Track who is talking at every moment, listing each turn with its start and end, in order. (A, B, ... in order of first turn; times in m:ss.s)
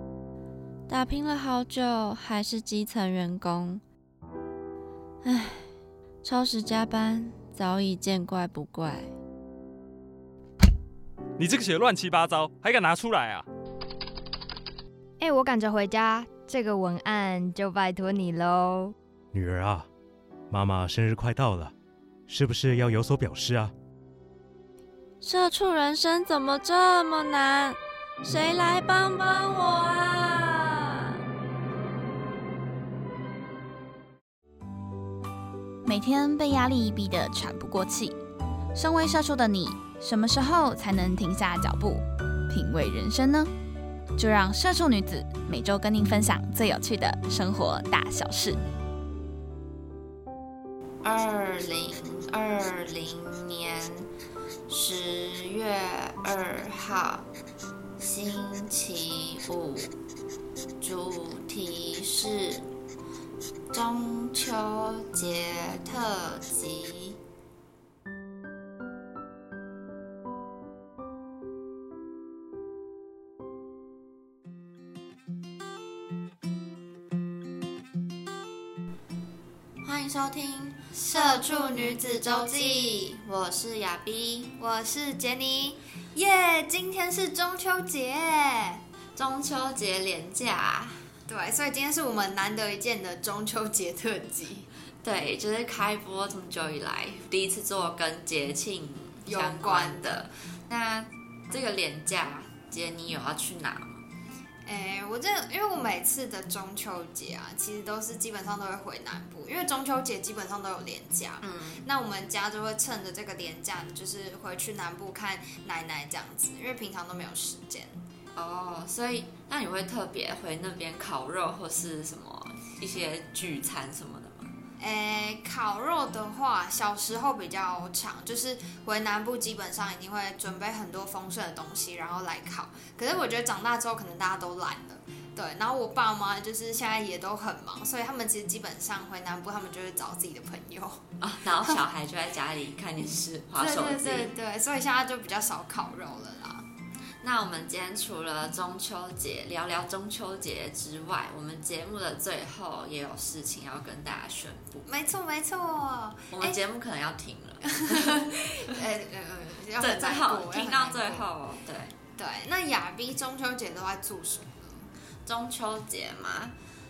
0:00.9-0:03.8 A
0:05.2-0:05.7 A
0:06.2-0:09.2 A
0:11.4-0:13.5 B
0:15.2-0:19.0 C
0:19.3-0:19.9 D
0:20.5-0:21.7 D
0:22.3-0:23.7 D
0:25.2-0:31.2 A
0:35.8-0:38.2 E
0:38.7-0:43.5 E
0:44.2-0:48.6 E
0:51.0-0:54.1 A
0:54.7-0:57.3 A
0:58.0-0:59.9 A
1:00.8-1:02.7 A
1:03.7-1:07.2 A
1:19.8-1:24.6 A
1:20.9-1:23.1 C
1:24.6-1:28.8 C
1:29.2-1:31.1 A
1:31.3-1:34.7 C
1:35.0-1:44.0 A
1:39.2-1:40.2 C
1:44.7-1:58.0 C
1:51.4-1:51.8 A
1:58.3-2:04.5 A
2:04.8-2:21.0 C
2:21.2-2:24.3 A
2:23.6-2:26.7 C
2:27.2-2:34.9 A
2:34.8-2:36.6 C
2:36.3-2:38.5 A
2:37.7-2:41.2 C
2:39.8-2:42.0 A
2:42.2-2:44.9 C
2:45.3-2:46.5 A